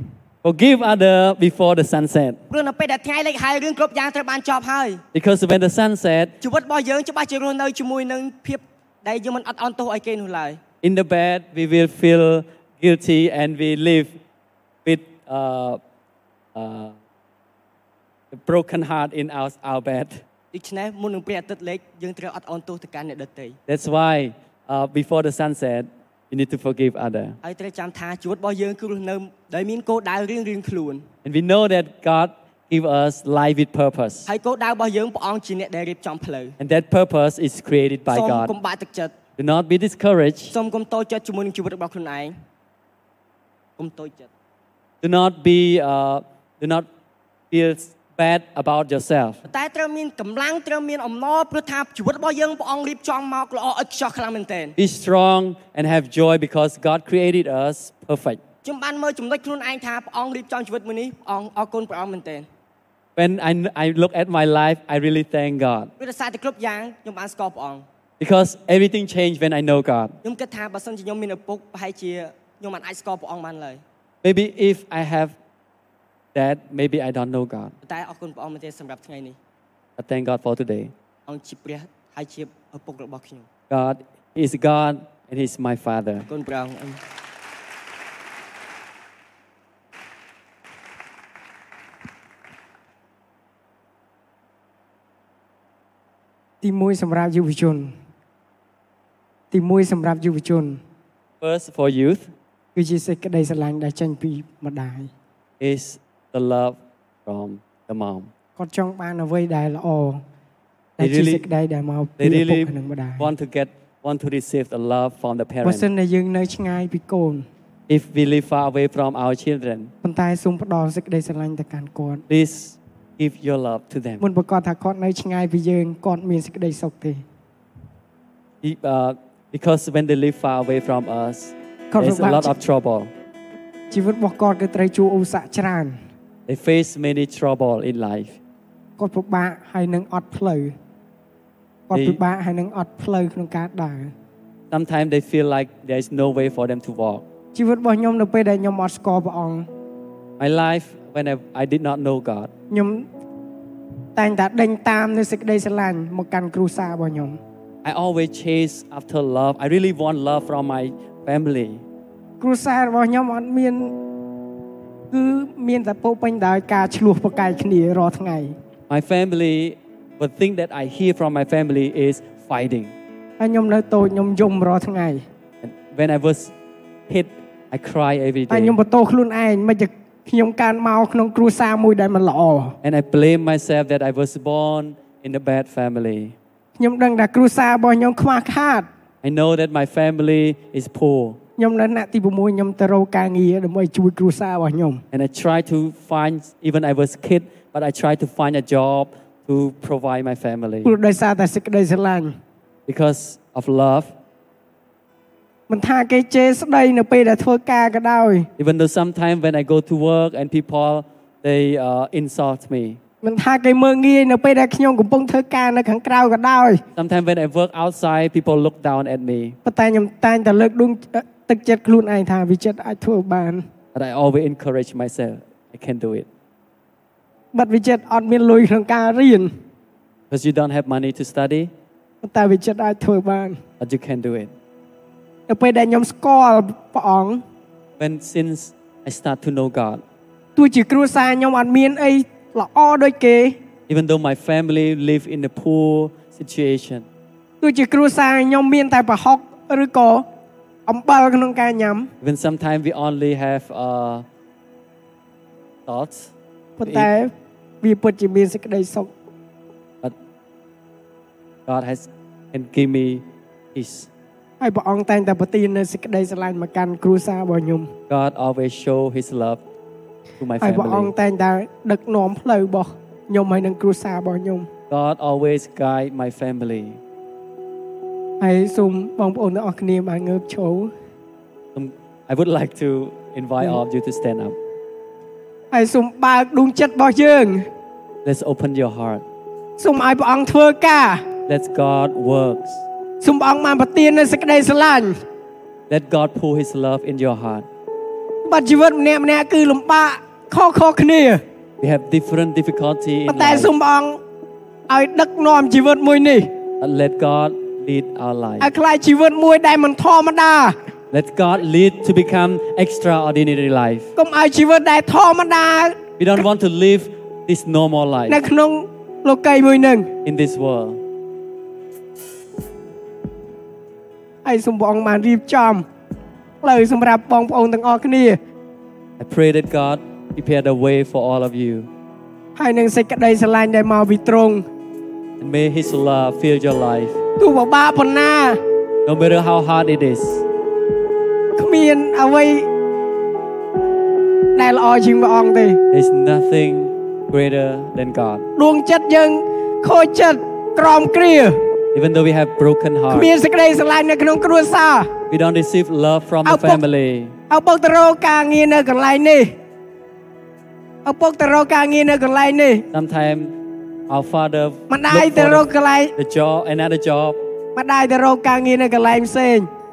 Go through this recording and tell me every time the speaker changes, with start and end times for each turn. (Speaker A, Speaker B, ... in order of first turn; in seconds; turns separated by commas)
Speaker A: 0.4-2.4, Speaker B: 2.5-5.0, Speaker A: 5.1-6.4, Speaker B: 6.4-10.6, Speaker A: 10.8-14.2, Speaker A: 14.8-15.8, Speaker A: 16.6-16.9, Speaker A: 18.3-20.2, Speaker B: 20.5-23.6, Speaker A: 23.7-27.4, Speaker B: 27.4-31.1, Speaker A: 31.2-34.3, Speaker B: 34.3-36.5, Speaker A: 36.6-38.5, Speaker B: 38.1-39.1, Speaker A: 39.4-40.6, Speaker B: 40.5-42.3, Speaker B: 43.8-44.3, Speaker A: 45.0-46.9, Speaker A: 47.5-49.4, Speaker B: 49.5-54.8, Speaker A: 54.8-58.4, Speaker B: 58.6-62.5, Speaker A: 63.2-65.9, Speaker B: 66.0-67.8, Speaker A: 68.2-70.2, Speaker B: 70.2-73.8, Speaker A: 74.2-75.3, Speaker A: 76.3-77.7, Speaker B: 77.8-79.4, Speaker A: 80.0-80.9, Speaker B: 81.3-83.5, Speaker A: 83.7-86.3, Speaker B: 86.3-87.0, Speaker C: 96.6-97.9, Speaker C: 99.5-100.8, Speaker A: 101.4-102.3, Speaker C: 102.8-105.1, Speaker A: 105.6-108.3, Speaker C: 108.6-110.2, Speaker C: 111.0-113.3, Speaker A: 111.0-111.5, Speaker A: 112.2-115.9, Speaker C: 115.6-117.5, Speaker A: 117.9-119.9, Speaker C: 120.0-122.2, Speaker A: 122.3-124.2, Speaker C: 124.2-127.2, Speaker A: 128.6-133.1, Speaker C: 131.9-132.6, Speaker C: 133.9-136.0, Speaker A: 136.5-138.4, Speaker C: 139.0-140.7, Speaker C: 141.9-144.1, Speaker A: 141.9-142.2, Speaker A: 144.7-147.2, Speaker C: 147.5-149.7, Speaker A: 150.4-152.5, Speaker C: 152.7-153.1, Speaker C: 154.2-157.4, Speaker A: 157.8-161.8, Speaker C: 162.4-163.9, Speaker C: 165.1-168.6, Speaker A: 168.9-172.9, Speaker C: 173.4-175.2, Speaker A: 175.6-176.5, Speaker A: 177.1-178.8, Speaker C: 178.5-182.8, Speaker A: 182.8-186.3, Speaker C: 186.8-188.9, Speaker A: 189.2-191.4, Speaker C: 191.6-195.0, Speaker A: 195.1-201.0, Speaker C: 200.8-202.3, Speaker A: 202.9-204.1, Speaker C: 205.7-208.5, Speaker A: 208.6-213.0, Speaker C: 213.2-216.8, Speaker A: 216.9-219.6, Speaker C: 219.7-223.7, Speaker A: 223.9-226.3, Speaker C: 227.5-229.5, Speaker A: 230.3-231.7, Speaker C: 232.2-233.6, Speaker A: 233.8-234.5, Speaker C: 235.5-237.4, Speaker A: 238.0-240.0, Speaker C: 240.6-243.6, Speaker A: 243.9-247.1, Speaker C: 247.6-250.2, Speaker C: 250.9-252.1, Speaker A: 252.2-254.2, Speaker A: 255.9-256.3, Speaker C: 256.8-259.1, Speaker A: 256.8-257.1, Speaker A: 261.7-264.1, Speaker C: 264.6-267.9, Speaker A: 268.1-269.6, Speaker A: 270.4-271.1, Speaker C: 270.6-274.7, Speaker A: 274.9-277.0, Speaker C: 278.4-280.9, Speaker A: 281.8-284.6, Speaker C: 285.7-287.7, Speaker A: 288.2-289.2, Speaker C: 289.8-291.2, Speaker A: 291.5-292.9, Speaker C: 293.2-295.2, Speaker A: 295.9-297.7, Speaker C: 298.5-301.4, Speaker A: 301.8-303.7, Speaker C: 303.3-304.2, Speaker C: 304.9-306.5, Speaker A: 306.8-308.7, Speaker C: 308.6-310.8, Speaker A: 311.1-314.1, Speaker C: 314.2-316.0, Speaker A: 316.2-318.4, Speaker C: 318.3-320.1, Speaker A: 320.2-321.0, Speaker C: 324.4-325.9, Speaker C: 326.6-328.4, Speaker A: 329.2-331.9, Speaker C: 332.6-334.6, Speaker A: 335.4-337.2, Speaker C: 337.4-338.6, Speaker A: 339.1-340.4, Speaker C: 341.6-342.7, Speaker C: 344.6-345.8, Speaker A: 345.9-348.5, Speaker C: 348.6-351.6, Speaker A: 351.9-353.3, Speaker C: 353.1-355.1, Speaker A: 355.3-357.4, Speaker C: 356.5-356.8, Speaker C: 357.5-359.6, Speaker C: 361.1-362.9, Speaker A: 362.9-363.5, Speaker A: 364.1-367.4, Speaker C: 364.9-366.1, Speaker C: 367.8-369.7